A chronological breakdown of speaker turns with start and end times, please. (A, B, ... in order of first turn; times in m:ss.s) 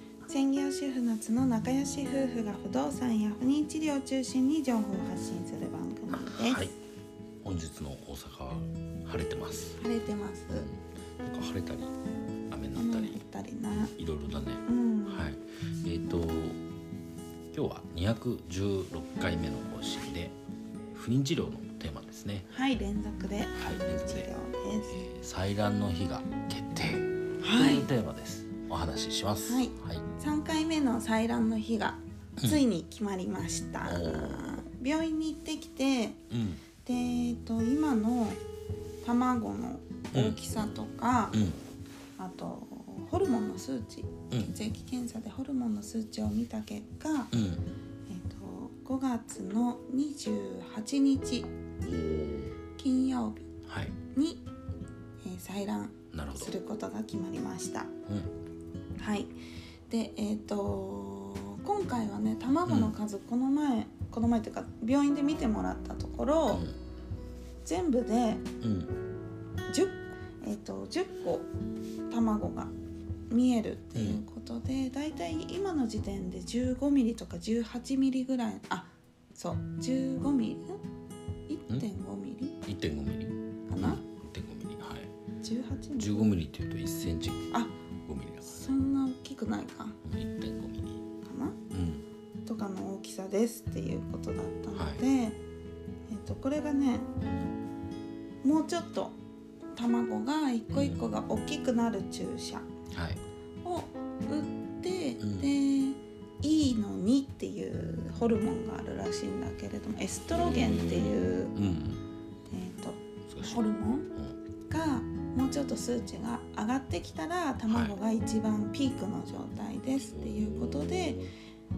0:00.3-0:06.7 A
0:06.1-0:06.8 B
0:07.4-0:09.8 B
0:09.8-0:10.7 A
0:10.5-0:11.9 B
0:12.5-0:13.2 B
0:12.8-0:14.0 A
0:14.0-0:16.6 B
0:14.7-0:15.3 A
0:17.5-0:20.4 B
0:20.9-0:22.5 B
0:22.5-0:25.1 A
0:23.6-0:24.3 B
0:25.0-0:30.1 B
0:27.4-0:27.9 A
0:29.4-0:36.2 A
0:33.8-0:34.6 B
0:36.3-0:36.6 B
0:36.8-0:38.4 A
0:39.0-0:41.4 A
0:40.1-0:40.4 B
0:41.3-0:41.6 B
0:42.2-0:47.3 A
0:47.3-0:47.7 B
0:48.1-0:51.5 A
0:51.8-0:52.6 B
0:52.8-0:53.5 A
0:53.7-0:54.0 B
0:54.1-0:54.4 A
0:55.2-0:57.9 A
0:56.1-0:56.5 B
0:59.0-0:59.3 A
0:59.9-1:06.7 A
1:02.7-1:03.0 B
1:06.5-1:06.8 B
1:07.6-1:08.5 A
1:08.6-1:09.0 B
1:09.7-1:11.5 A
1:12.1-1:12.7 A
1:13.3-1:20.8 A
1:14.0-1:14.2 B
1:21.5-1:22.6 A
1:22.7-1:25.1 B
1:23.7-1:24.0 A
1:25.4-1:26.3 A
1:26.0-1:27.5 B
1:28.1-1:28.7 B
1:28.4-1:30.0 A
1:30.0-1:31.0 B
1:31.2-1:31.6 A
1:31.7-1:32.0 B
1:32.5-1:35.4 A
1:34.7-1:35.0 B
1:36.1-1:37.1 A
1:37.2-1:37.5 B
1:38.4-1:39.2 A
1:39.8-1:42.7 A
1:40.7-1:41.0 B
1:42.9-1:43.2 B
1:43.6-1:51.5 A
1:45.2-1:45.5 B
1:50.3-1:52.0 B
1:52.5-1:54.1 A
1:53.3-1:54.4 B
1:54.7-2:01.3 A
1:57.7-1:58.0 B
2:00.0-2:01.3 B